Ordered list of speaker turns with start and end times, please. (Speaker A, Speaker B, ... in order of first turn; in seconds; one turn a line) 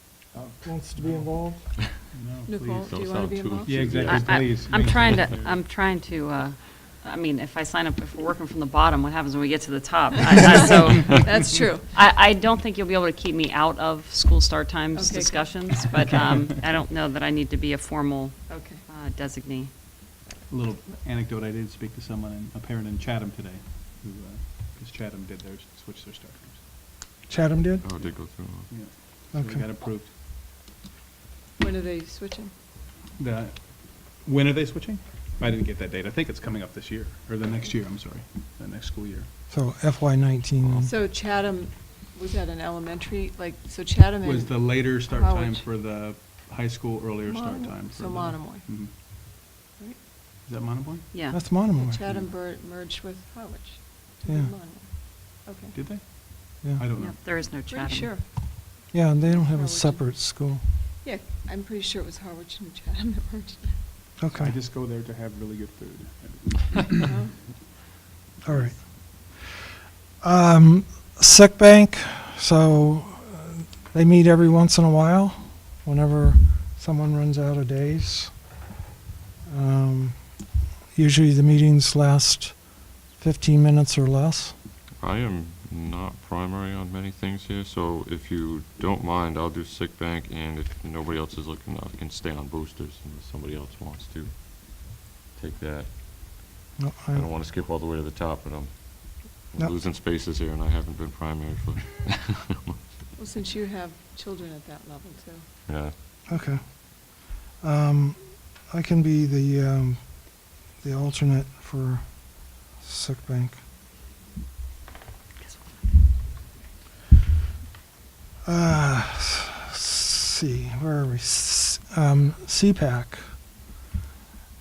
Speaker A: 0.3-1.8
Speaker B: 1.0-1.4
Speaker B: 2.1-3.0
Speaker C: 2.5-4.7
Speaker D: 2.8-4.3
Speaker B: 3.6-5.7
Speaker E: 4.0-19.7
Speaker C: 10.4-11.9
Speaker C: 14.9-16.0
Speaker C: 18.5-18.8
Speaker B: 20.5-26.6
Speaker A: 27.3-27.8
Speaker D: 27.8-28.7
Speaker B: 28.0-30.1
Speaker A: 29.3-29.6
Speaker C: 31.6-32.5
Speaker B: 33.1-39.3
Speaker A: 39.5-40.9
Speaker C: 40.8-45.7
Speaker B: 44.2-49.1
Speaker C: 47.2-50.0
Speaker B: 50.4-51.1
Speaker E: 51.1-51.5
Speaker A: 51.3-52.0
Speaker C: 51.5-55.8
Speaker B: 55.7-57.5
Speaker E: 57.0-58.2
Speaker C: 57.7-63.8
Speaker A: 58.9-60.6
Speaker A: 64.2-64.5
Speaker B: 64.3-67.0
Speaker C: 67.0-67.4
Speaker A: 68.4-69.5
Speaker C: 68.5-68.8
Speaker A: 70.2-78.5
Speaker A: 79.5-84.5
Speaker D: 85.0-102.8
Speaker A: 96.8-97.2
Speaker C: 103.1-105.5
Speaker D: 105.6-105.9
Speaker A: 106.3-113.6
Speaker E: 115.4-115.8
Speaker A: 118.4-123.3